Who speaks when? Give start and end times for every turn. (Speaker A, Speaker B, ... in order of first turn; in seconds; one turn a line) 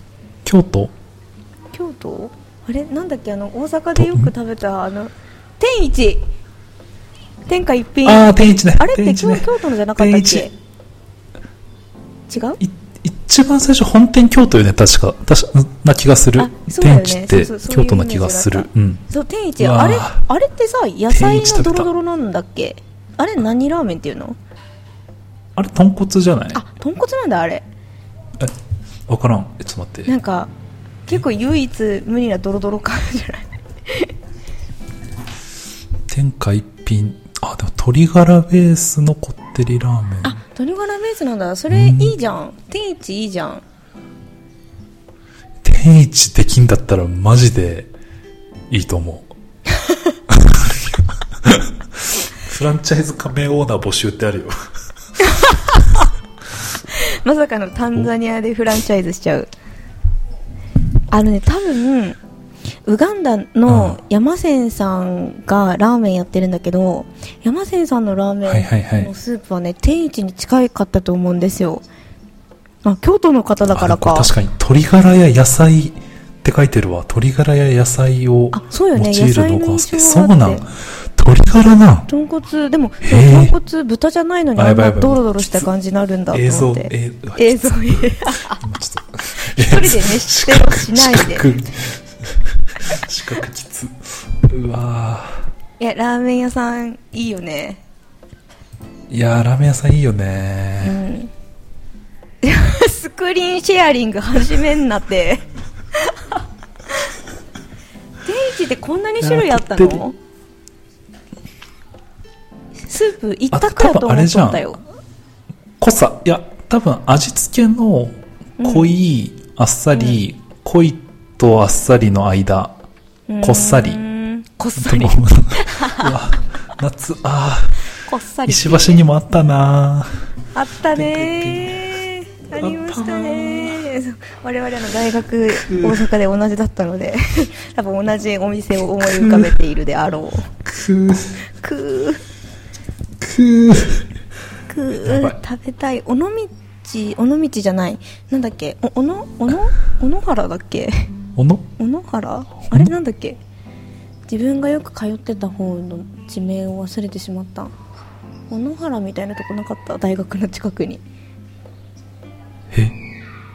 Speaker A: 0.5-0.9
Speaker B: 1.7-6.3
Speaker A: 4.0-4.3
Speaker B: 7.5-10.5
Speaker A: 8.1-10.5
Speaker B: 12.3-12.6
Speaker A: 12.6-19.1
Speaker B: 16.4-24.4
Speaker A: 19.6-20.2
Speaker A: 21.1-21.9
Speaker A: 25.6-26.6
Speaker B: 26.5-27.7
Speaker A: 29.1-30.1
Speaker B: 30.1-30.5
Speaker B: 31.1-34.1
Speaker A: 36.1-40.4
Speaker B: 40.2-43.6
Speaker A: 41.7-42.2
Speaker A: 45.6-47.9
Speaker A: 48.7-49.3
Speaker A: 50.3-54.5
Speaker B: 55.2-56.0
Speaker B: 56.9-59.5
Speaker B: 61.1-62.2
Speaker B: 62.9-71.8
Speaker A: 63.7-64.0
Speaker A: 68.5-69.1
Speaker B: 72.8-74.3
Speaker A: 73.7-82.1
Speaker B: 78.5-80.7
Speaker B: 82.1-88.6
Speaker A: 83.0-83.5
Speaker A: 84.6-85.7
Speaker A: 86.3-95.5
Speaker B: 89.5-91.5
Speaker B: 95.8-97.8
Speaker A: 99.1-101.0
Speaker B: 100.8-101.3
Speaker B: 102.4-105.5
Speaker B: 106.1-106.4
Speaker B: 108.2-110.2
Speaker A: 109.2-110.0
Speaker B: 112.9-114.8
Speaker A: 113.5-114.8
Speaker A: 115.8-122.8
Speaker B: 118.6-118.9
Speaker B: 119.9-120.2
Speaker B: 123.3-126.2
Speaker A: 123.4-124.0
Speaker A: 124.8-127.8
Speaker B: 128.0-129.1
Speaker A: 128.5-130.1
Speaker B: 130.5-140.5
Speaker A: 130.9-132.0
Speaker A: 132.6-133.8
Speaker A: 135.6-136.0
Speaker A: 139.0-139.6
Speaker A: 140.7-141.4
Speaker B: 141.4-142.2
Speaker A: 143.2-144.1
Speaker B: 144.7-151.1
Speaker A: 145.0-145.4
Speaker A: 151.4-151.6
Speaker B: 151.8-153.4
Speaker B: 154.3-157.7
Speaker B: 158.5-161.0